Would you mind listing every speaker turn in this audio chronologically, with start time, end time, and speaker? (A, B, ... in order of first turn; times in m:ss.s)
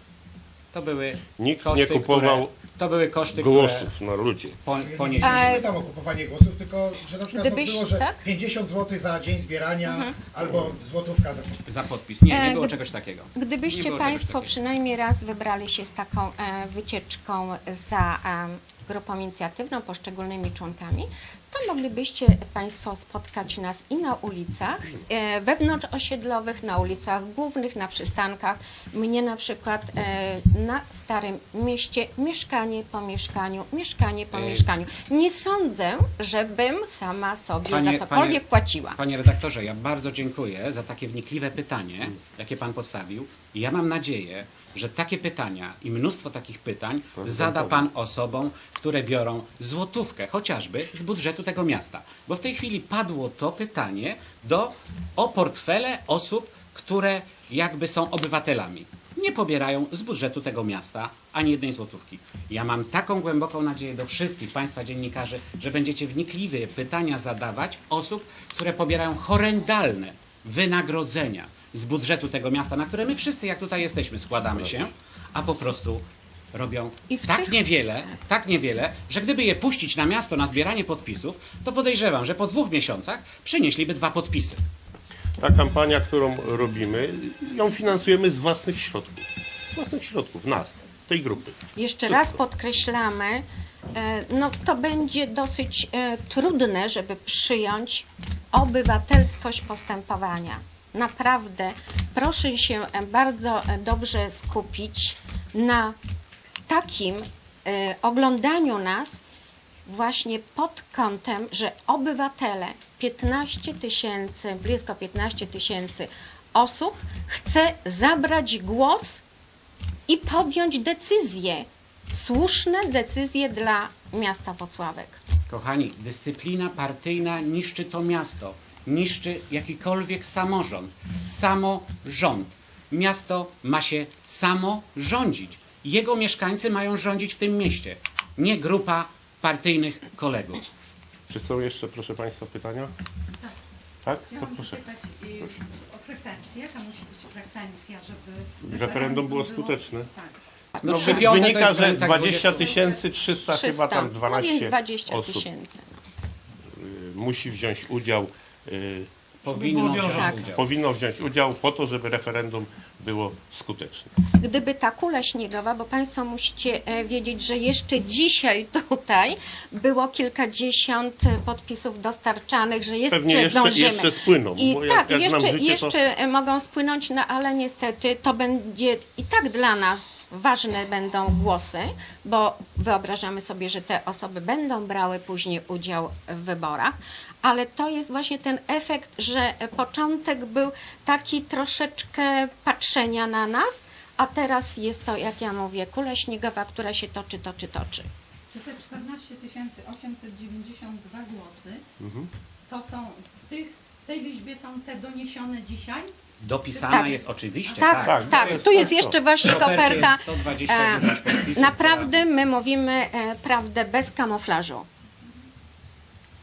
0:00.7-0:03.9 A
0:01.4-0:02.5 B
0:03.3-0:04.6 B
0:04.6-0:05.7 A
0:04.7-0:11.7 C
0:05.2-0:05.7 D
0:07.3-0:08.2 D
0:09.8-0:10.2 D
0:11.7-0:14.6 A
0:12.3-0:12.7 D
0:13.4-0:39.0 D
0:34.3-0:34.7 A
0:37.7-1:24.6 A
0:47.2-0:47.9 B
1:17.1-1:17.6 D
1:25.4-1:32.4 B
1:31.8-1:46.0 D
1:46.7-1:49.2 D
1:49.9-1:59.2 D
2:00.1-2:05.2 D
2:05.5-2:20.7 A
2:21.3-2:22.9 B
2:24.0-2:24.8 B
2:24.3-2:30.4 E
2:28.6-2:30.1 B
2:30.8-2:32.8 A
2:30.8-2:35.5 B
2:30.8-2:31.1 D
2:32.7-2:33.0 E
2:33.5-2:35.8 D
2:36.7-2:44.1 B
2:39.4-2:40.6 A
2:40.1-2:40.4 D
2:44.4-3:18.1 D
2:53.1-2:55.9 B
3:18.5-3:21.8 E
3:22.0-3:22.3 B
3:22.7-3:26.1 E
3:26.4-3:32.1 A
3:26.7-3:28.0 E
3:26.9-3:27.2 D
3:27.8-3:34.9 D
3:28.0-3:29.2 B